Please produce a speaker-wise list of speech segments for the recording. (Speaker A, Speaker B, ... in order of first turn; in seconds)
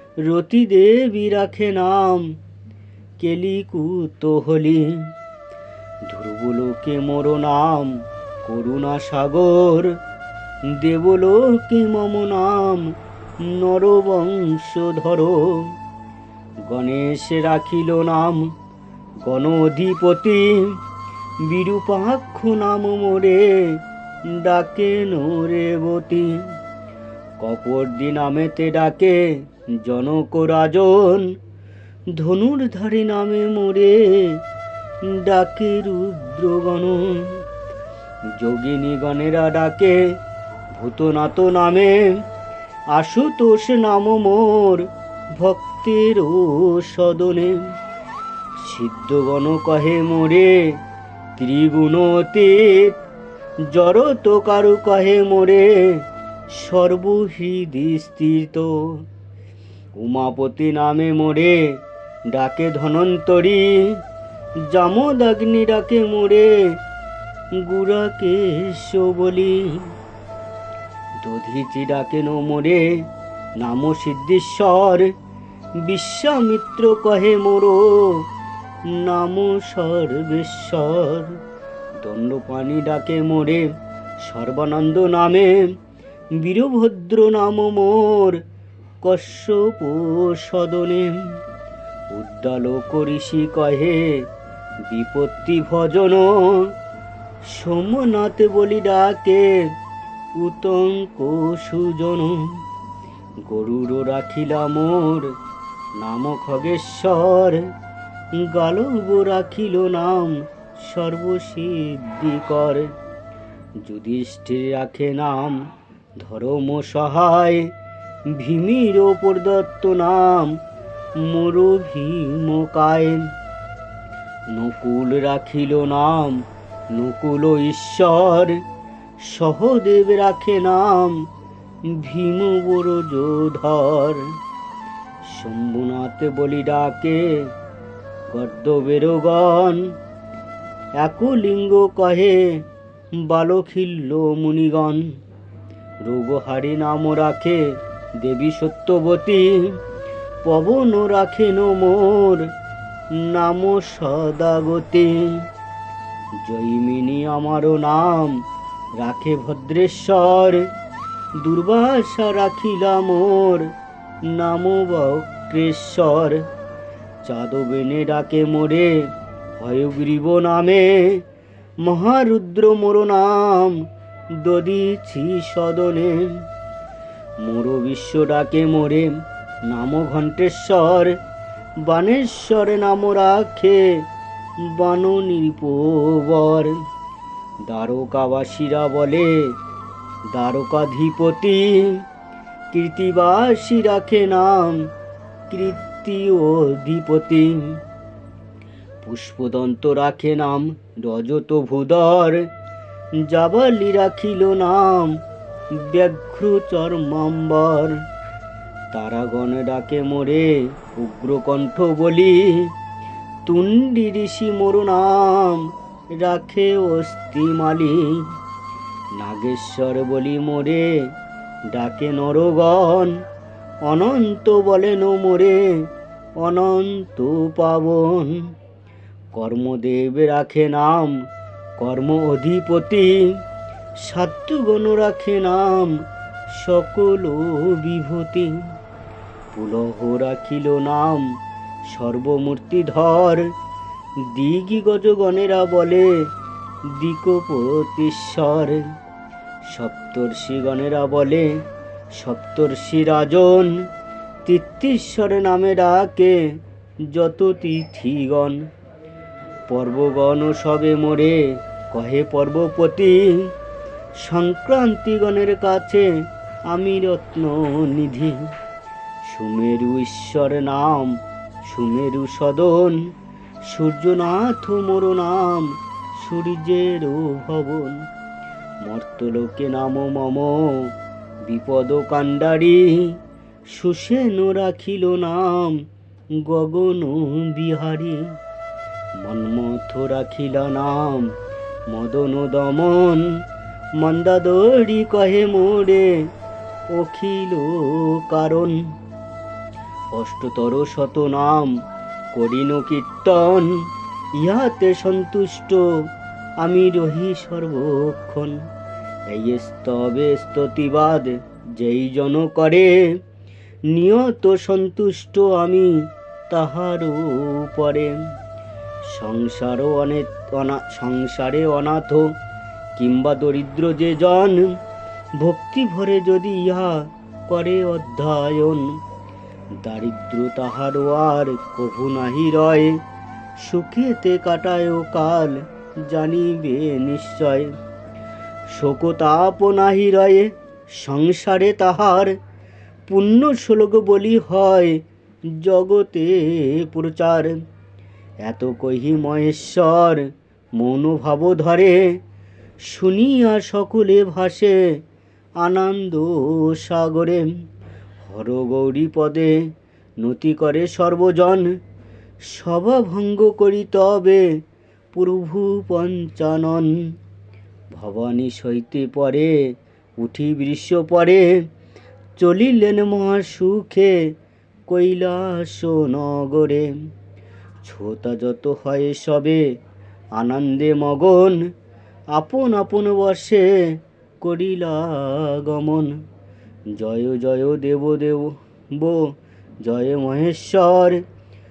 Speaker A: 0.2-2.3, 3.2-5.1, 6.0-9.9, 10.7-15.7, 16.6-18.5, 19.2-20.8, 21.4-26.5, 27.4-31.3, 32.1-34.4, 35.0-37.4, 38.3-40.1, 40.7-42.2, 42.9-47.7, 48.6-50.8, 51.4-53.0, 53.6-59.0, 60.0-64.0, 64.6-66.8, 67.5-69.9, 71.2-73.1, 73.6-75.1, 75.8-78.2, 78.9-81.4, 82.0-83.7, 84.2-85.7, 86.4-88.4, 89.0-91.3, 92.1-94.2, 94.8-96.7, 97.5-99.7, 100.4-102.6, 103.4-105.3, 106.0-107.7, 108.3-112.9, 113.8-115.7, 116.2-117.7, 118.3-120.6, 121.2-123.3, 124.5-128.6, 129.2-131.2, 131.9-134.3, 135.2-137.5, 138.3-139.9, 141.0-142.6, 143.2-145.1, 146.0-147.6, 148.2-149.8, 150.4-152.5, 153.1-155.4, 156.4-158.4, 159.0-160.7, 161.4-163.7, 164.2-166.4, 167.2-171.2, 171.8-173.8, 174.3-176.4, 177.4-181.2, 181.8-184.0, 184.6-186.8, 187.6-189.5, 190.3-192.0, 192.7-194.9, 195.5-197.8, 199.0-202.5, 203.2-205.2, 205.7-208.0, 208.9-212.7, 213.4-218.3, 219.1-221.1, 221.7-223.2, 223.8-225.9, 226.4-228.5, 229.3-231.2, 231.8-233.4, 234.0-238.7, 239.5-241.3, 241.8-243.5, 244.2-246.2, 246.9-248.9, 249.6-253.8, 254.4-256.5, 257.1-258.6, 259.7-263.5, 264.2-266.1, 266.7-268.5, 269.2-273.0, 273.6-278.0, 278.8-280.9, 281.4-283.2, 283.7-285.8, 286.4-288.3, 289.2-291.3, 291.9-293.3, 294.0-296.2, 296.9-298.8, 300.1-301.7, 302.3-303.7, 304.4-305.9, 306.6-308.6, 309.3-313.2, 313.9-318.2, 319.1-322.3, 322.9-324.7, 325.4-328.9, 329.8-333.0, 333.6-337.7, 338.7-342.3, 343.1-347.6, 348.4-352.2, 352.8-355.0, 355.6-357.5, 358.2-359.6, 360.2-361.8, 362.4-364.5, 365.1-367.0, 367.9-371.6, 372.4-374.2, 374.9-376.9, 377.8-379.6, 380.3-381.6, 382.3-386.2, 386.9-391.2